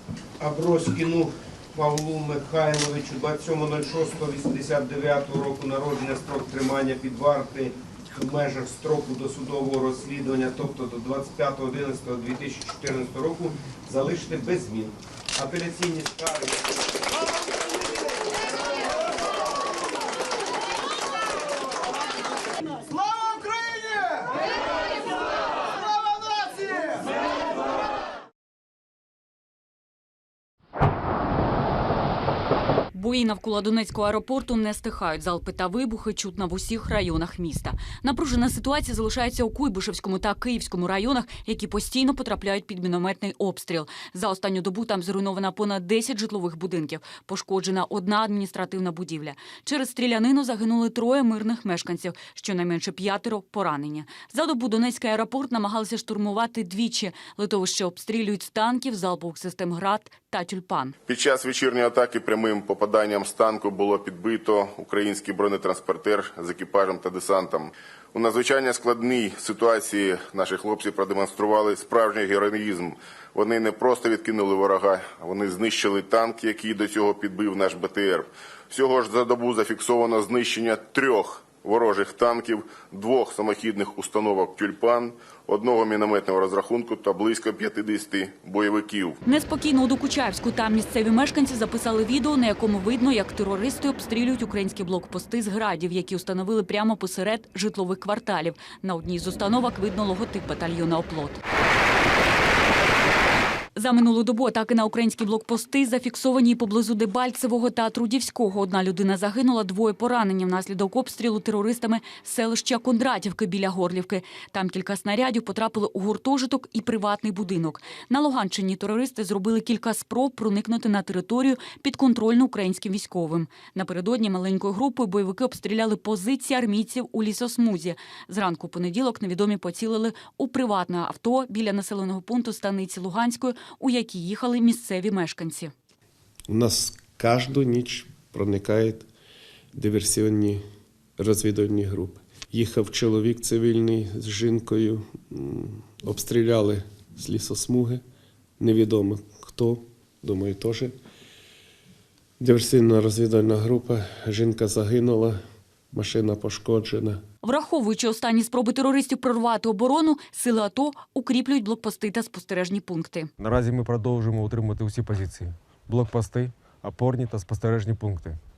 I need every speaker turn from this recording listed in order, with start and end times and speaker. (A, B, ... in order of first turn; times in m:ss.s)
0:00.4-0:16.6 A
0:32.9-1:00.9 B
1:01.1-1:29.2 C
1:29.2-1:41.4 B
1:43.7-2:15.7 B
2:16.5-2:19.1 D
2:19.7-2:20.6 D
2:21.2-2:28.0 D
2:28.6-2:30.9 D
2:32.4-2:35.4 D
2:35.9-2:37.2 D
2:37.4-2:43.3 B
2:43.4-2:48.4 E